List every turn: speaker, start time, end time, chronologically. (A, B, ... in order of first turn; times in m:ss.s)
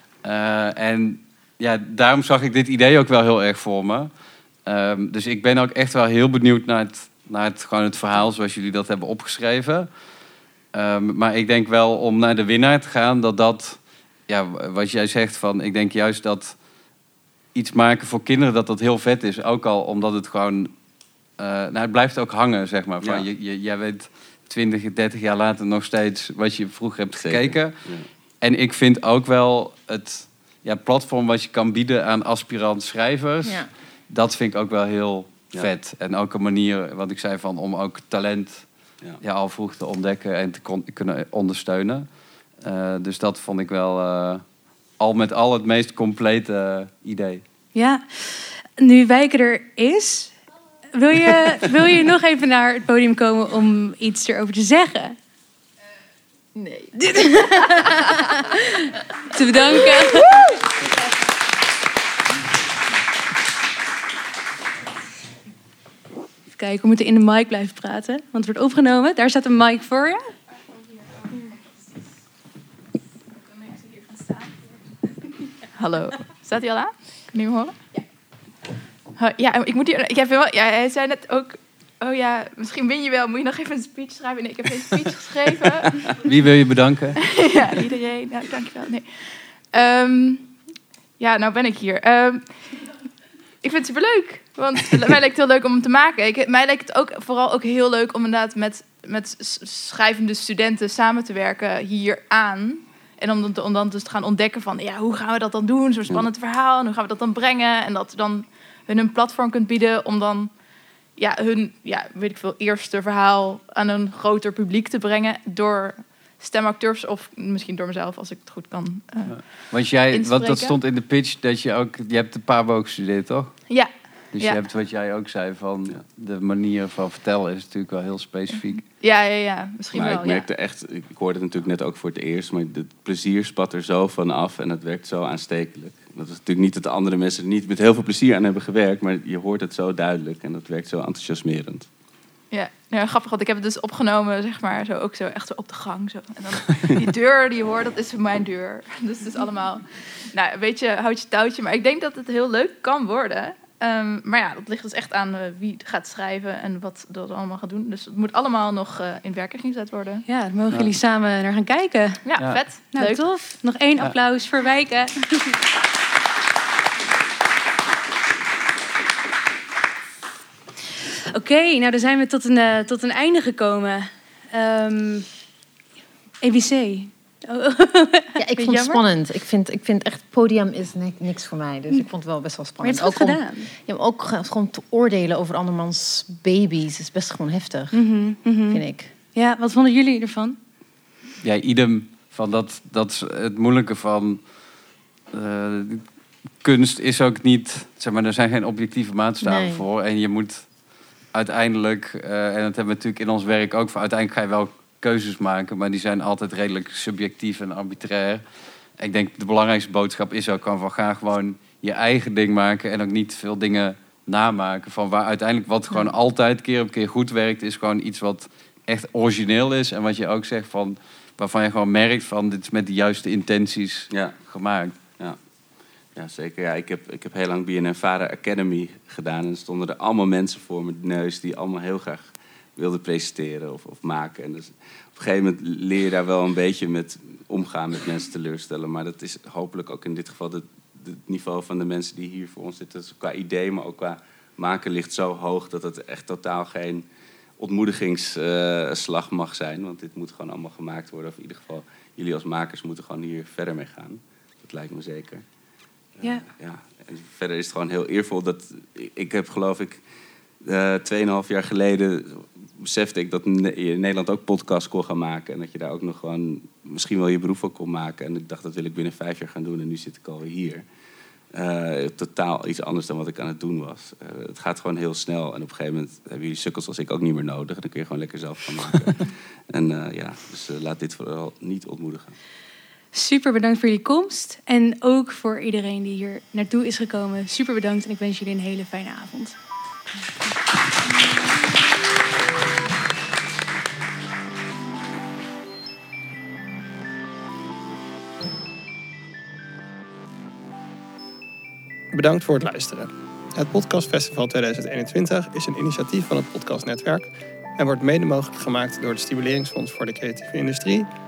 0:00.2-0:04.1 A
0:04.6-0:09.9 A
0:10.7-0:16.6 A
0:17.5-0:20.7 A
0:21.4-0:27.7 A
0:27.2-0:28.0 B
0:28.4-0:38.6 A
0:33.4-0:33.7 C
0:39.2-0:42.1 A
0:42.6-0:44.4 A
0:45.0-0:47.4 A
0:47.7-0:50.3 D
0:50.9-0:55.2 D
0:56.5-0:58.4 C
0:57.0-1:00.4 D
0:59.7-1:00.5 C
1:06.6-1:10.3 D
1:15.8-1:17.7 E
1:19.2-1:26.0 E
1:26.2-1:27.2 A
1:27.2-1:30.5 E
1:31.2-1:32.6 E
1:33.6-1:50.5 E
1:51.2-2:00.7 E
1:59.3-2:03.6 A
2:03.7-2:04.6 E
2:04.3-2:08.8 A
2:09.0-2:10.4 E
2:09.9-2:21.9 B
2:22.5-2:40.2 E
2:40.3-2:42.2 D
2:42.2-2:43.3 E
2:42.4-2:42.6 A
2:42.9-2:45.6 D
2:51.3-2:55.3 D
2:56.4-2:59.0 D
2:58.4-3:07.9 C
3:02.8-3:03.7 D
3:07.9-3:08.8 D
3:08.7-3:09.1 C
3:09.3-3:10.6 D
3:11.4-3:14.4 A
3:15.3-3:16.0 A
3:16.6-3:20.7 A
3:19.4-3:19.8 C
3:21.3-3:28.4 A
3:29.0-3:44.9 A
3:44.1-3:44.4 B
3:46.2-4:07.0 B
4:07.6-4:15.4 B
4:16.2-4:20.0 B
4:20.6-4:30.8 B
4:31.5-4:42.3 B
4:43.1-4:49.6 D
5:02.1-5:11.1 F